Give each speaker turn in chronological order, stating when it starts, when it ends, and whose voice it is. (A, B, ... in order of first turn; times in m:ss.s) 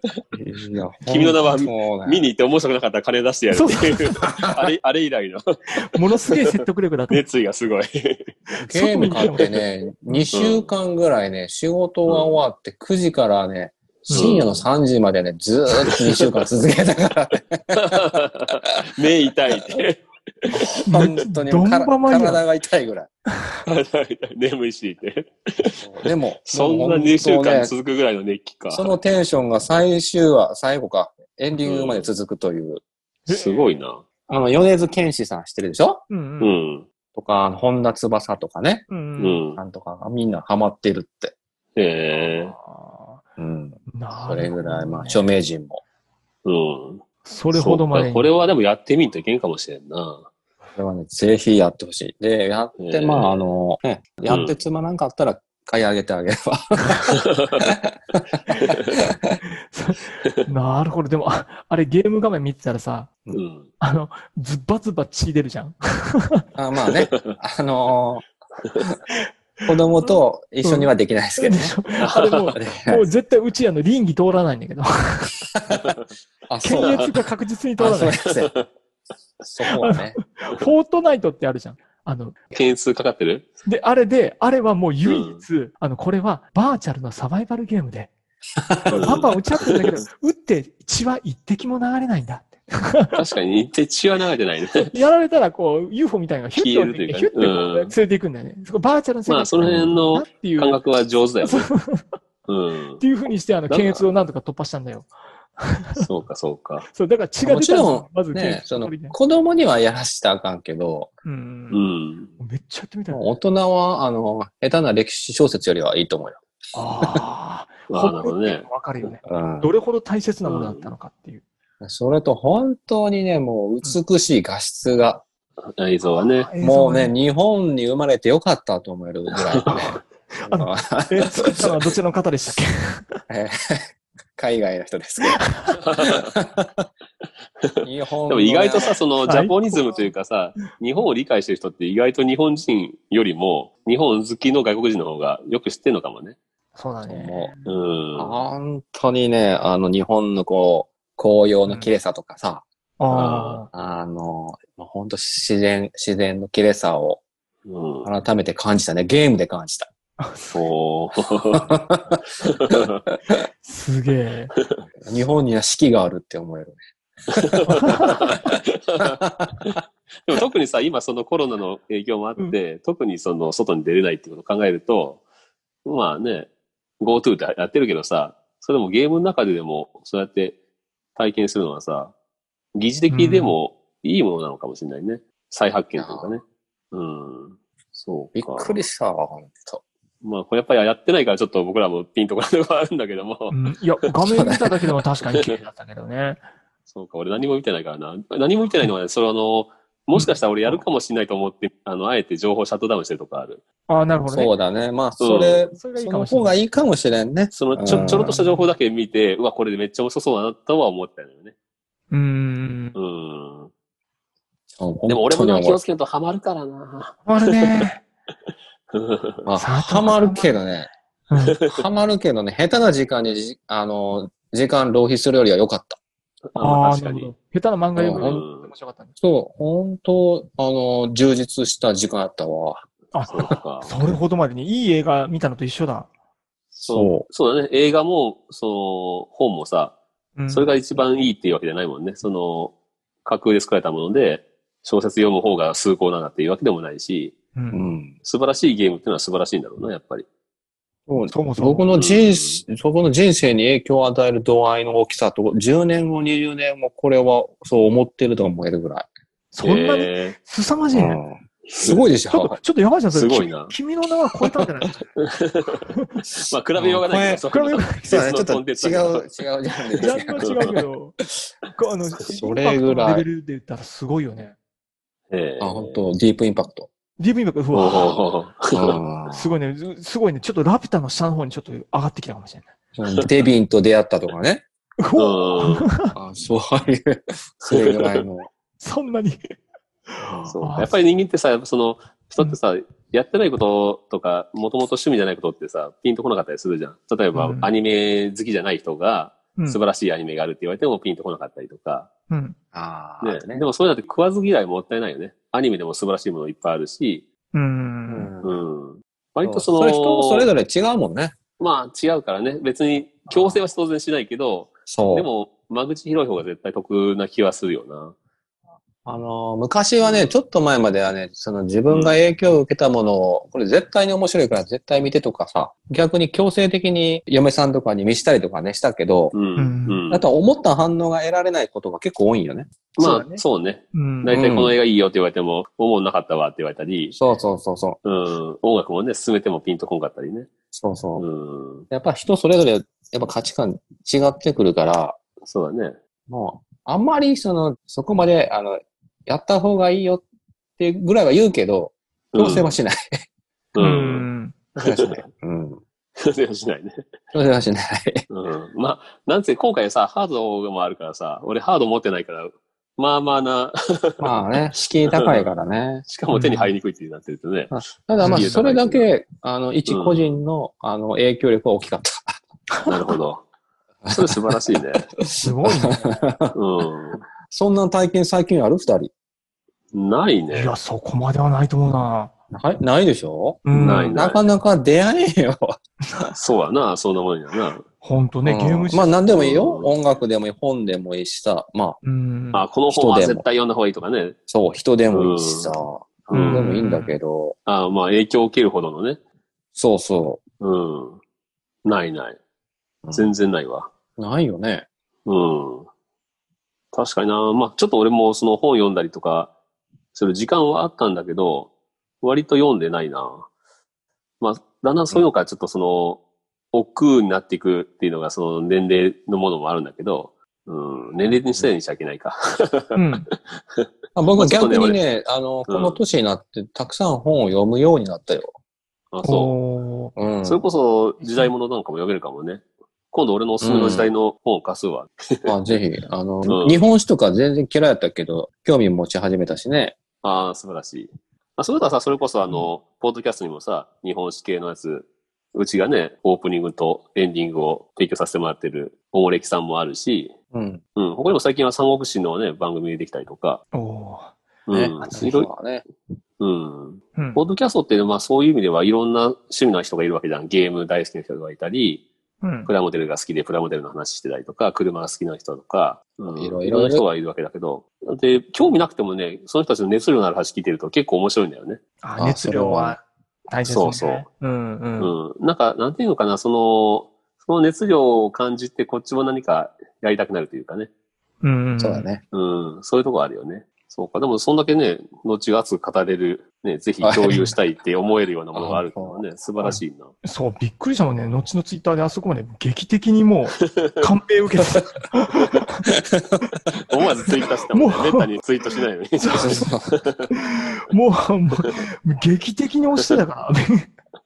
0:00.3-0:02.3 A
0:01.1-0:05.4 B
0:03.5-0:04.2 C
0:04.2-0:04.7 A
0:05.8-0:07.2 C
0:06.2-0:08.3 B
0:08.5-0:09.5 C
0:08.6-0:18.1 A
0:09.1-0:09.4 B
0:10.3-0:10.7 B
0:12.1-0:12.4 B
0:14.0-0:14.6 B
0:14.1-0:14.4 C
0:17.8-0:20.5 B
0:20.5-0:23.1 A
0:20.8-0:22.4 C
0:23.6-0:25.8 B
0:25.8-0:27.7 A
0:26.4-0:29.0 B
0:28.7-0:32.8 A
0:31.6-0:32.1 B
0:33.2-0:33.8 C
0:33.3-0:34.0 B
0:34.3-0:36.0 A
0:36.1-0:36.5 C
0:36.4-0:36.9 B
0:37.1-0:38.9 A
0:38.9-0:39.4 C
0:39.2-0:39.6 B
0:39.6-0:41.3 A
0:41.8-0:42.5 B
0:42.2-0:43.2 C
0:43.4-0:45.8 A
0:43.9-0:45.3 C
0:46.4-0:50.3 B
0:47.2-0:48.3 C
0:50.8-0:58.2 A
0:52.8-0:53.5 B
0:54.3-0:54.6 B
0:57.1-0:57.7 B
0:58.6-0:59.0 B
0:59.4-1:03.1 C
1:03.3-1:03.7 B
1:03.8-1:06.4 C
1:06.6-1:08.2 A
1:09.6-1:11.8 A
1:10.6-1:15.4 C
1:12.0-1:12.5 B
1:12.5-1:13.0 A
1:15.7-1:16.1 B
1:16.5-1:17.2 A
1:16.6-1:18.1 C
1:16.8-1:17.1 B
1:17.8-1:18.5 A
1:18.4-1:18.6 B
1:19.4-1:20.2 A
1:19.8-1:22.4 C
1:22.5-1:23.5 B
1:23.6-1:28.1 C
1:25.0-1:25.4 B
1:28.7-1:29.3 A
1:28.8-1:33.2 C
1:28.9-1:30.0 B
1:33.1-1:34.9 B
1:34.9-1:40.8 C
1:36.5-1:37.9 B
1:39.3-1:41.7 B
1:39.6-1:40.0 A
1:41.4-1:42.2 C
1:42.5-1:43.0 B
1:43.0-1:46.0 C
1:43.7-1:44.1 B
1:46.0-1:46.9 B
1:46.9-1:49.2 C
1:47.4-1:51.1 A
1:51.2-1:51.8 C
1:51.7-1:52.3 B
1:52.4-1:53.3 C
1:53.1-1:56.4 A
1:56.7-2:01.4 C
1:57.9-1:58.7 B
1:59.2-1:59.8 A
2:00.4-2:00.9 B
2:01.8-2:05.2 A
2:05.7-2:06.5 B
2:06.0-2:07.1 C
2:06.6-2:11.9 A
2:09.6-2:13.2 C
2:13.3-2:13.8 A
2:14.4-2:15.5 A
2:15.7-2:16.3 B
2:16.2-2:16.8 A
2:17.8-2:19.0 A
2:18.3-2:26.4 B
2:19.2-2:20.1 C
2:26.7-2:27.5 C
2:27.1-2:27.5 A
2:27.6-2:28.4 B
2:28.2-2:32.6 A
2:33.0-2:33.7 C
2:33.1-2:33.6 B
2:33.7-2:37.2 A
2:37.6-2:38.1 B
2:38.0-2:39.9 A
2:40.2-2:40.6 C
2:40.5-2:41.8 B
2:41.8-2:42.1 A
2:42.4-2:43.0 B
2:43.3-2:44.5 C
2:45.0-2:47.8 A
2:47.5-2:55.2 B
2:49.2-2:49.5 A
2:55.8-2:56.5 B
2:57.0-3:00.6 B
3:01.2-3:02.1 B
3:02.7-3:08.8 B
3:03.1-3:03.5 C
3:06.0-3:06.4 A
3:08.3-3:09.8 A
3:10.2-3:13.6 B
3:13.5-3:16.4 C
3:14.3-3:14.7 A
3:15.2-3:15.6 B
3:16.9-3:23.6 B
3:20.1-3:20.8 C
3:23.9-3:24.5 C
3:24.2-3:28.4 A
3:25.2-3:25.7 B
3:25.7-3:26.6 C
3:27.5-3:31.5 B
3:27.9-3:28.7 C
3:32.1-3:33.0 C
3:33.0-3:33.7 B
3:34.8-3:35.8 A
3:35.1-3:37.8 B
3:37.2-3:38.0 C
3:38.9-3:39.4 B
3:39.4-3:40.9 A
3:39.6-3:40.5 C
3:41.3-3:41.6 C
3:41.3-3:41.8 B
3:41.6-3:46.0 A
3:46.5-3:47.3 B
3:46.6-3:49.1 C
3:47.9-3:48.4 A
3:48.0-3:48.7 B
3:49.2-3:52.8 A
3:53.1-3:56.1 C
3:53.2-3:54.0 B
3:56.7-4:00.0 B
3:56.8-3:57.3 A
4:00.4-4:00.8 C
4:00.5-4:07.4 B
4:07.5-4:07.8 C
4:07.7-4:08.1 A
4:08.2-4:10.3 B
4:11.1-4:19.1 A
4:11.3-4:11.8 C
4:11.9-4:12.6 B
4:19.5-4:21.2 C
4:19.6-4:20.3 B
4:20.9-4:22.6 A
4:21.7-4:22.0 B
4:22.3-4:25.0 C
4:23.1-4:23.7 B
4:24.4-4:24.9 A
4:25.4-4:25.8 B
4:25.9-4:26.2 C
4:26.4-4:29.3 B
4:26.9-4:27.4 A
4:27.5-4:28.2 C
4:28.1-4:31.3 A
4:30.0-4:30.7 B
4:30.0-4:31.1 C
4:31.7-4:34.6 C
4:32.3-4:33.3 A
4:35.3-4:36.1 B
4:35.6-4:36.9 A
4:37.2-4:38.2 C
4:37.7-4:39.0 B
4:38.7-4:39.5 A
4:39.3-4:42.7 C
4:43.0-4:44.6 A
4:45.0-4:46.1 C
4:45.2-4:45.9 B
4:46.1-4:48.5 A
4:47.6-4:48.2 B
4:48.8-4:49.5 C
4:50.1-4:50.9 C
4:50.2-5:02.1 B
4:57.3-4:57.7 C
5:02.3-5:02.6 C
5:02.7-5:03.6 A
5:03.2-5:07.2 B
5:07.5-5:08.3 C
5:08.1-5:08.5 A
5:08.4-5:10.5 B
5:09.4-5:11.3 A
5:11.6-5:18.2 B
5:13.3-5:13.6 A
5:14.9-5:15.3 A
5:19.0-5:29.4 A
5:20.0-5:20.3 B
5:21.9-5:22.2 B
5:29.3-5:30.2 B
5:29.6-5:30.0 C
5:30.1-5:33.4 A
5:33.0-5:37.2 B
5:33.9-5:34.3 C
5:34.3-5:34.8 A
5:37.1-5:38.0 A
5:38.0-5:40.5 B
5:40.7-5:41.2 A
5:41.2-5:41.9 B
5:41.9-5:45.2 A
5:45.4-5:46.0 B
5:46.3-5:50.2 A
5:50.8-5:53.0 A
5:52.3-5:52.7 B
5:53.7-5:54.3 B
5:53.8-5:54.6 C
5:54.8-5:55.8 A
5:54.8-5:55.2 B
5:56.2-5:57.0 B
5:57.3-5:58.2 A
5:58.3-6:04.5 B
6:04.2-6:06.0 A
6:05.1-6:05.5 B
6:06.0-6:09.1 B
6:06.3-6:06.7 C
6:07.7-6:12.4 A
6:08.2-6:08.6 C
6:09.9-6:10.3 B
6:12.9-6:13.4 B
6:14.0-6:14.5 A
6:14.1-6:15.1 B
6:15.2-6:16.5 A
6:15.4-6:16.2 C
6:16.5-6:17.2 B
6:17.5-6:19.1 A
6:19.9-6:20.7 B
6:20.5-6:22.3 C
6:22.5-6:26.3 A
6:23.6-6:24.1 C
6:23.7-6:24.4 B
6:26.3-6:27.8 B
6:28.0-6:29.1 C
6:28.4-6:32.0 A
6:29.3-6:29.9 B
6:32.0-6:32.6 C
6:32.5-6:34.4 B
6:32.9-6:33.4 A
6:34.5-6:37.6 A
6:35.1-6:35.8 B
6:36.3-6:37.2 C
6:36.3-6:36.8 B
6:37.6-6:39.2 B
6:39.8-6:40.4 A
6:40.6-6:41.2 B
6:41.8-6:42.4 B
6:43.0-6:43.3 A
6:43.1-6:43.9 B
6:44.2-6:44.8 A
6:45.2-6:45.9 B
6:46.9-6:49.5 B
6:50.1-6:53.5 B
6:54.4-6:56.2 B
6:56.7-7:05.0 B
7:03.0-7:03.3 C
7:04.2-7:08.5 A
7:05.7-7:06.0 B
7:09.1-7:09.5 B
7:09.2-7:10.1 C
7:10.2-7:10.6 A
7:10.4-7:15.5 B
7:11.2-7:11.5 C
7:13.6-7:14.1 A
7:15.4-7:20.0 A
7:16.4-7:16.8 B
7:20.2-7:30.3 B
7:30.5-7:30.8 A
7:31.0-7:33.6 B
7:33.7-7:34.3 C
7:34.7-7:35.5 B
7:34.7-7:35.8 A
7:36.4-7:42.0 B
7:37.2-7:37.4 C
7:42.4-7:42.7 C
7:42.6-7:51.8 B
7:46.3-7:47.0 A
7:52.0-7:55.1 C
7:52.2-7:53.0 A
7:53.6-7:54.2 B
7:55.0-8:00.9 B
8:01.4-8:02.1 C
8:01.8-8:02.2 A
8:02.3-8:10.1 B
8:07.0-8:07.4 A
8:08.5-8:09.2 A
8:09.6-8:15.9 C
8:16.8-8:20.3 B
8:17.7-8:18.3 C
8:19.2-8:19.7 C
8:19.3-8:20.0 A
8:20.3-8:23.9 C